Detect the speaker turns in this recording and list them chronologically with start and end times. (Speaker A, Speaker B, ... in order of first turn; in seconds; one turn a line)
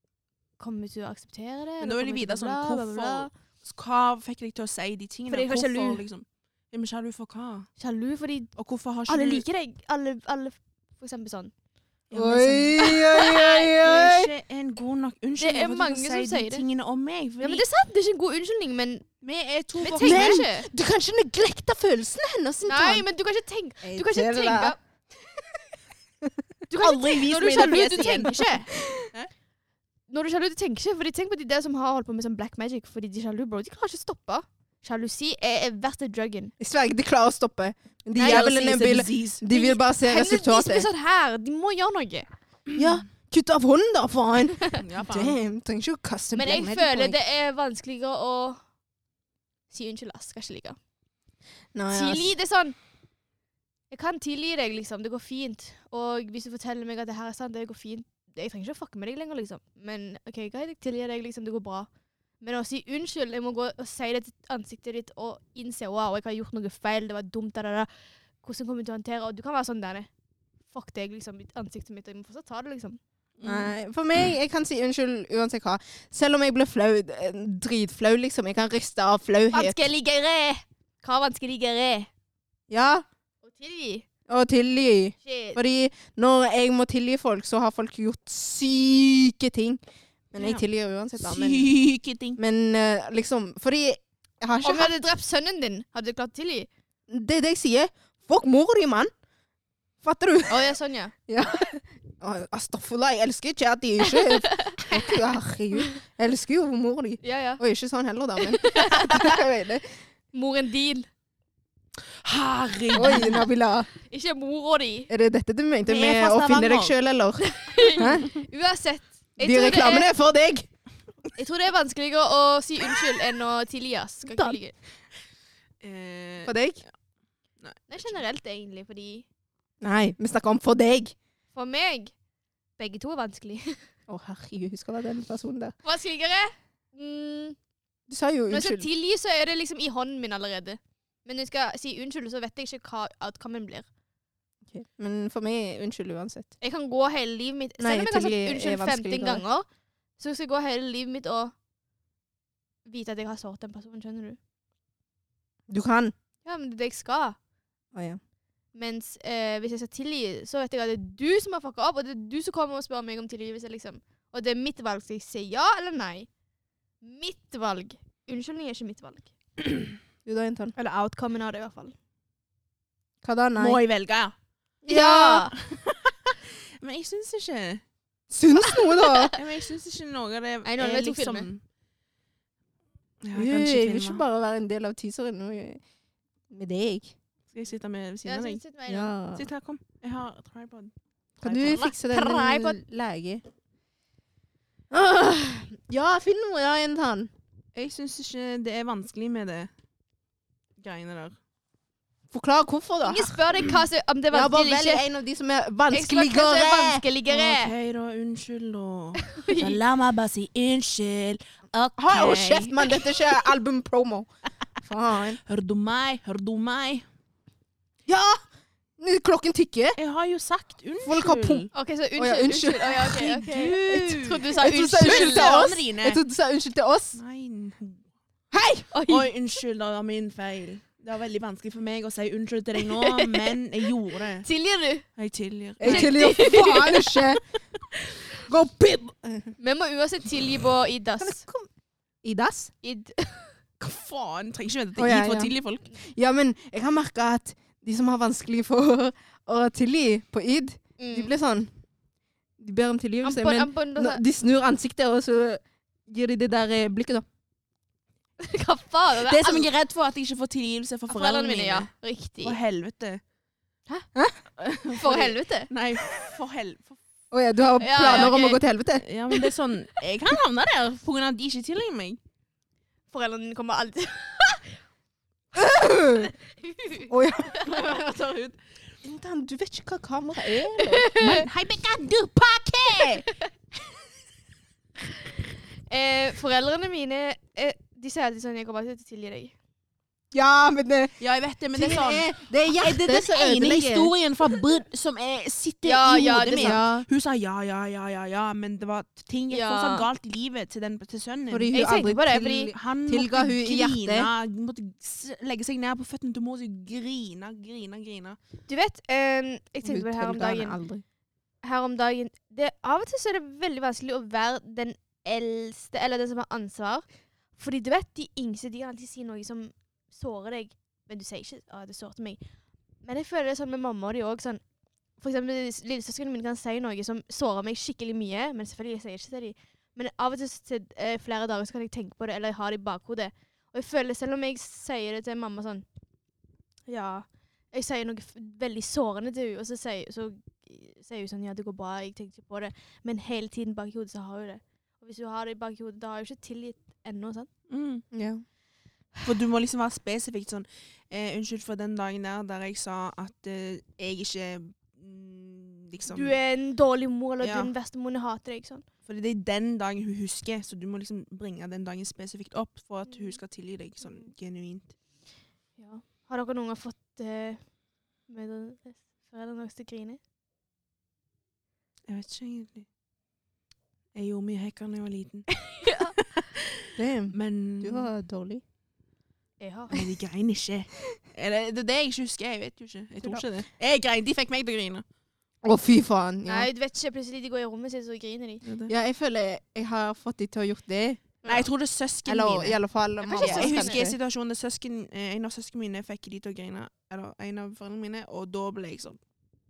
Speaker A: 0.6-3.3
Speaker B: 1.8-7.7
Speaker A: 5.3-6.0
Speaker A: 7.8-8.5
Speaker B: 8.6-9.4
Speaker A: 9.1-11.5
Speaker B: 12.1-17.6
Speaker C: 12.1-14.3
Speaker A: 12.8-13.6
Speaker A: 15.4-16.6
Speaker A: 17.4-19.1
Speaker B: 19.2-20.4
Speaker A: 19.8-20.7
Speaker C: 19.9-23.1
Speaker A: 22.7-24.8
Speaker C: 23.8-24.8
Speaker A: 26.7-28.7
Speaker B: 26.8-28.5
Speaker C: 28.7-29.1
Speaker A: 30.1-36.5
Speaker C: 36.6-40.9
Speaker B: 38.2-39.4
Speaker A: 39.5-42.3
Speaker C: 42.8-47.2
Speaker B: 44.8-45.4
Speaker A: 46.4-48.6
Speaker A: 49.7-50.8
Speaker C: 51.7-52.3
Speaker A: 51.9-52.8
Speaker A: 53.9-61.9
Speaker A: 62.4-67.9
Speaker A: 68.4-70.1
Speaker A: 70.7-73.0
Speaker B: 73.4-73.7
Speaker C: 73.4-79.8
Speaker A: 79.5-82.1
Speaker C: 82.7-83.1
Speaker A: 83.4-84.1
Speaker C: 84.3-89.8
Speaker A: 85.2-85.6
Speaker C: 90.3-91.7
Speaker B: 90.4-90.6
Speaker B: 91.2-92.4
Speaker C: 92.4-95.0
Speaker A: 94.6-96.7
Speaker C: 97.1-99.1
Speaker C: 100.0-100.7
Speaker A: 100.5-101.1
Speaker C: 101.3-109.9
Speaker A: 104.1-105.0
Speaker A: 107.2-107.6
Speaker A: 108.4-109.4
Speaker A: 110.3-111.1
Speaker B: 112.2-113.5
Speaker C: 112.9-113.9
Speaker A: 113.0-113.4
Speaker A: 114.1-115.1
Speaker C: 115.1-118.4
Speaker B: 115.9-117.0
Speaker A: 117.4-120.1
Speaker C: 119.4-120.7
Speaker A: 121.4-124.8
Speaker C: 124.3-124.6
Speaker B: 125.8-126.6
Speaker C: 126.4-126.8
Speaker B: 127.6-128.1
Speaker A: 127.9-129.3
Speaker C: 129.8-131.2
Speaker A: 131.5-132.1
Speaker A: 132.8-133.8
Speaker C: 134.1-135.8
Speaker A: 135.8-137.6
Speaker C: 138.1-138.9
Speaker A: 138.5-143.9
Speaker C: 144.7-146.5
Speaker A: 146.6-149.7
Speaker C: 147.8-149.4
Speaker A: 150.2-151.5
Speaker A: 152.9-154.4
Speaker C: 155.7-156.1
Speaker A: 156.4-157.4
Speaker C: 157.9-158.2
Speaker A: 158.8-166.3
Speaker A: 167.0-169.3
Speaker C: 170.2-170.8
Speaker A: 170.8-171.9
Speaker C: 173.2-173.8
Speaker B: 173.6-174.3
Speaker A: 174.9-175.5
Speaker C: 174.9-175.5
Speaker B: 175.6-177.8
Speaker C: 178.3-179.3
Speaker A: 178.7-179.4
Speaker B: 179.4-181.6
Speaker A: 180.7-181.5
Speaker B: 183.2-184.2
Speaker C: 183.3-185.8
Speaker C: 186.5-187.1
Speaker B: 187.5-188.6
Speaker A: 188.2-189.1
Speaker C: 188.9-189.5
Speaker B: 189.3-192.5
Speaker C: 191.4-193.4
Speaker A: 192.4-192.7
Speaker C: 194.9-197.3
Speaker B: 197.8-199.7
Speaker B: 200.8-201.4
Speaker C: 202.3-203.4
Speaker A: 203.0-205.0
Speaker C: 204.3-207.0
Speaker A: 205.9-207.7
Speaker B: 207.3-212.9
Speaker A: 209.3-209.8
Speaker C: 212.0-214.3
Speaker C: 214.8-215.4
Speaker B: 215.5-217.1
Speaker C: 218.1-218.4
Speaker C: 219.0-220.0
Speaker B: 220.0-221.7
Speaker C: 221.0-223.4
Speaker A: 221.7-225.7
Speaker B: 223.2-226.2
Speaker C: 223.9-227.2
Speaker B: 227.2-228.1
Speaker C: 228.5-228.9
Speaker A: 228.9-229.3
Speaker B: 229.1-234.5
Speaker A: 232.8-233.6
Speaker A: 234.4-235.1
Speaker B: 235.2-236.7
Speaker C: 235.8-237.4
Speaker A: 235.8-237.2
Speaker C: 238.5-239.5
Speaker A: 239.6-241.4
Speaker C: 241.2-241.7
Speaker C: 242.2-242.7
Speaker A: 242.8-243.6
Speaker B: 243.8-245.8
Speaker C: 245.0-251.7
Speaker A: 251.0-251.3
Speaker C: 252.6-257.2
Speaker A: 253.2-254.2
Speaker A: 258.4-259.7
Speaker B: 259.3-261.9
Speaker A: 261.1-262.6
Speaker B: 262.4-263.2
Speaker B: 264.6-267.0
Speaker A: 264.9-265.7
Speaker C: 267.3-269.1
Speaker A: 267.8-268.6
Speaker B: 268.0-268.4
Speaker B: 269.0-272.2
Speaker A: 273.1-274.7
Speaker C: 275.5-276.3
Speaker A: 276.6-277.1
Speaker C: 277.1-277.6
Speaker B: 277.6-278.6
Speaker C: 279.0-281.1
Speaker A: 280.8-281.4
Speaker B: 281.2-283.3
Speaker A: 285.9-289.5
Speaker C: 290.3-291.2
Speaker B: 291.2-301.7
Speaker C: 291.7-294.1
Speaker A: 295.8-296.8
Speaker C: 296.6-297.1
Speaker A: 299.5-300.1
Speaker C: 301.5-304.3
Speaker A: 301.7-302.7
Speaker B: 302.7-308.4
Speaker A: 308.7-310.8
Speaker C: 309.8-311.0
Speaker A: 311.6-317.1
Speaker A: 317.6-322.4
Speaker A: 323.0-324.6
Speaker A: 325.2-335.9
Speaker A: 336.9-347.5
Speaker B: 347.7-348.0
Speaker C: 348.1-348.4
Speaker B: 349.2-356.4
Speaker A: 356.1-358.9
Speaker B: 357.4-357.7
Speaker B: 359.1-364.9
Speaker A: 363.1-363.4
Speaker A: 365.8-367.6
Speaker A: 368.3-370.2
Speaker B: 372.1-372.9
Speaker B: 374.1-378.1
Speaker A: 375.7-376.1
Speaker C: 377.0-378.6
Speaker A: 379.6-380.1
Speaker B: 379.9-385.0
Speaker C: 385.6-386.7
Speaker A: 386.5-388.6
Speaker B: 388.6-388.9
Speaker C: 388.9-391.4
Speaker B: 391.5-399.2
Speaker C: 392.3-394.2
Speaker A: 393.2-394.0